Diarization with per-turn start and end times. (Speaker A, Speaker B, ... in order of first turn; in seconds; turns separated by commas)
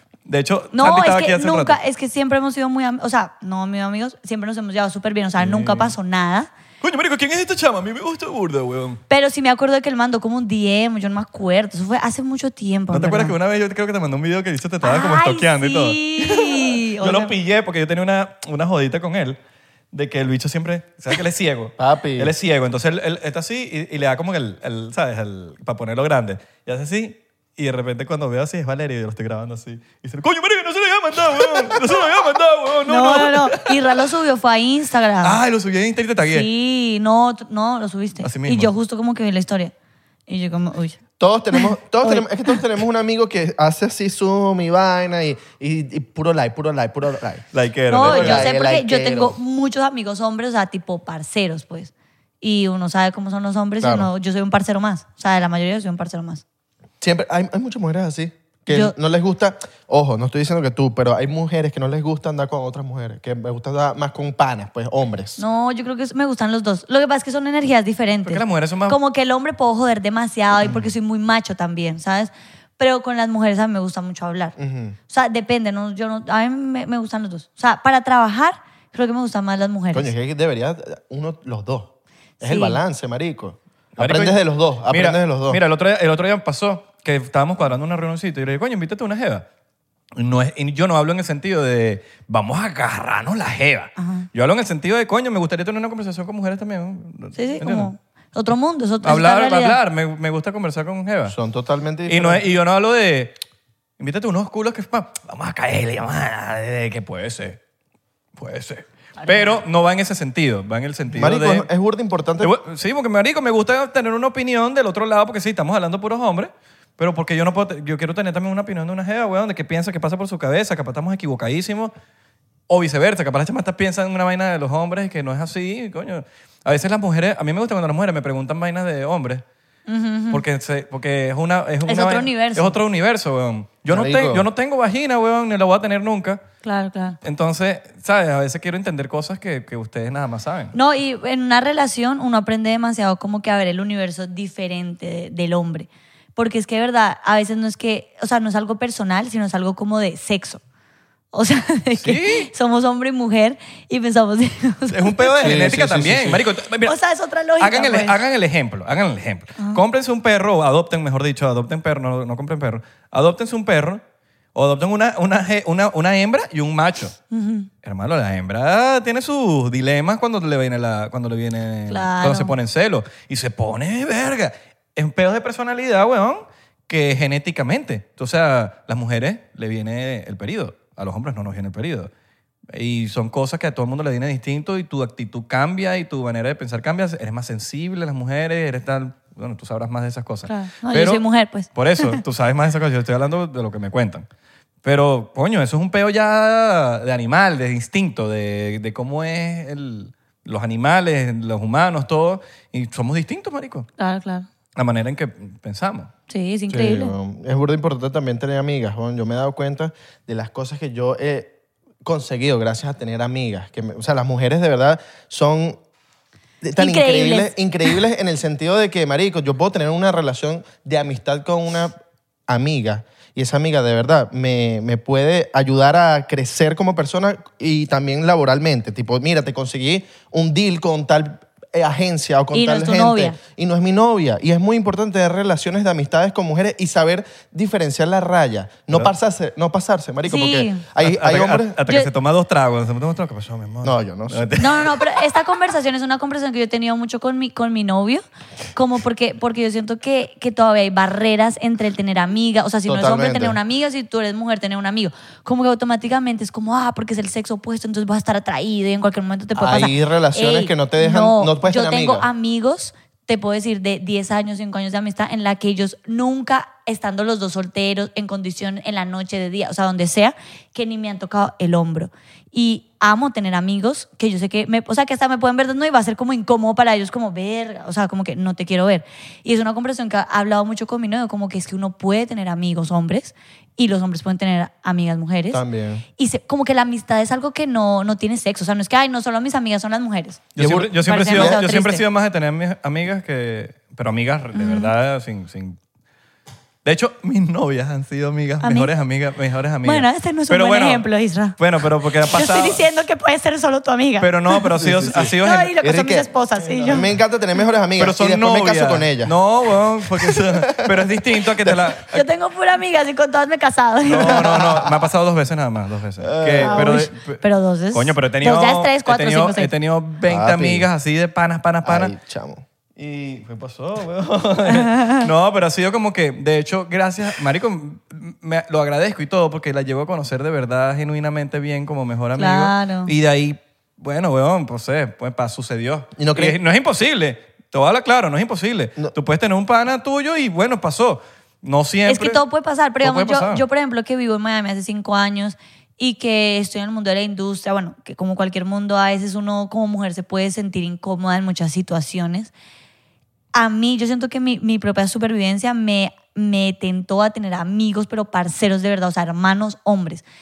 Speaker A: 0.3-1.8, Speaker B: 0.7-6.5, Speaker A: 5.4-5.9, Speaker A: 6.8-9.0, Speaker B: 9.1-13.3, Speaker A: 12.9-19.4, Speaker B: 14.8-17.3, Speaker A: 19.9-34.0, Speaker C: 21.8-22.3, Speaker B: 32.9-35.4, Speaker A: 35.2-36.5, Speaker B: 36.3-39.7, Speaker A: 38.2-38.7, Speaker B: 40.3-41.0, Speaker C: 41.2-47.5, Speaker B: 41.5-42.6, Speaker A: 47.5-48.5, Speaker B: 47.9-56.4, Speaker C: 48.0-49.4, Speaker C: 53.8-54.1, Speaker C: 57.0-65.4, Speaker B: 65.4-74.6, Speaker A: 68.2-69.0, Speaker C: 70.6-70.9, Speaker C: 74.6-75.0, Speaker B: 75.1-80.1, Speaker C: 79.9-85.6, Speaker B: 82.4-82.8, Speaker A: 84.0-89.5, Speaker A: 90.2-97.9, Speaker B: 94.0-94.3, Speaker B: 97.4-99.8, Speaker A: 99.0-101.3, Speaker C: 101.3-102.4, Speaker A: 102.1-103.4, Speaker A: 104.0-107.6, Speaker A: 108.4-111.7, Speaker B: 109.2-109.5, Speaker C: 111.1-112.5, Speaker A: 112.4-121.9, Speaker A: 122.7-129.4, Speaker B: 129.9-130.4, Speaker A: 130.3-136.4, Speaker B: 131.9-132.8, Speaker C: 133.9-134.5, Speaker B: 136.6-137.2, Speaker A: 137.2-140.8, Speaker B: 140.7-150.6, Speaker B: 151.3-155.6, Speaker A: 152.0-152.5, Speaker A: 154.9-156.9, Speaker C: 155.4-156.5, Speaker B: 156.8-158.2, Speaker A: 157.6-164.0, Speaker A: 164.6-167.2, Speaker B: 167.3-167.7, Speaker A: 167.8-182.1, Speaker B: 171.9-172.5, Speaker A: 182.7-194.3, Speaker B: 190.5-192.2, Speaker A: 194.8-203.9, Speaker B: 204.0-204.5, Speaker A: 204.8-206.1, Speaker B: 206.3-207.1, Speaker C: 206.7-211.5, Speaker C: 212.0-215.8, Speaker C: 216.6-221.9, Speaker B: 216.8-217.9, Speaker C: 222.5-241.8, Speaker B: 232.5-233.4, Speaker B: 240.2-240.8, Speaker A: 241.0-245.0, Speaker C: 243.8-244.6, Speaker B: 244.6-248.2, Speaker B: 248.7-285.6, Speaker C: 252.9-253.6, Speaker C: 259.6-262.3, Speaker C: 285.5-286.1, Speaker B: 286.2-290.5, Speaker C: 290.6-291.6, Speaker A: 290.6-295.8, Speaker B: 291.0-292.0, Speaker B: 294.6-294.9, Speaker A: 296.8-301.1, Speaker B: 298.6-298.9, Speaker B: 299.8-301.6, Speaker A: 301.6-302.8, Speaker B: 302.3-304.7, Speaker A: 304.2-305.7, Speaker C: 304.8-306.3, Speaker B: 305.4-307.1, Speaker A: 306.8-307.0, Speaker C: 306.8-309.4, Speaker A: 308.0-312.2, Speaker C: 310.2-311.0, Speaker B: 312.1-314.6, Speaker A: 314.1-322.1, Speaker C: 314.3-314.9, Speaker C: 316.2-317.1, Speaker B: 316.6-319.7, Speaker C: 320.3-320.9, Speaker C: 321.8-322.6, Speaker A: 323.0-342.4, Speaker B: 324.7-325.3, Speaker B: 332.4-333.1, Speaker C: 336.2-336.6, Speaker B: 342.1-352.5, Speaker A: 343.0-343.6, Speaker B: 353.5-360.2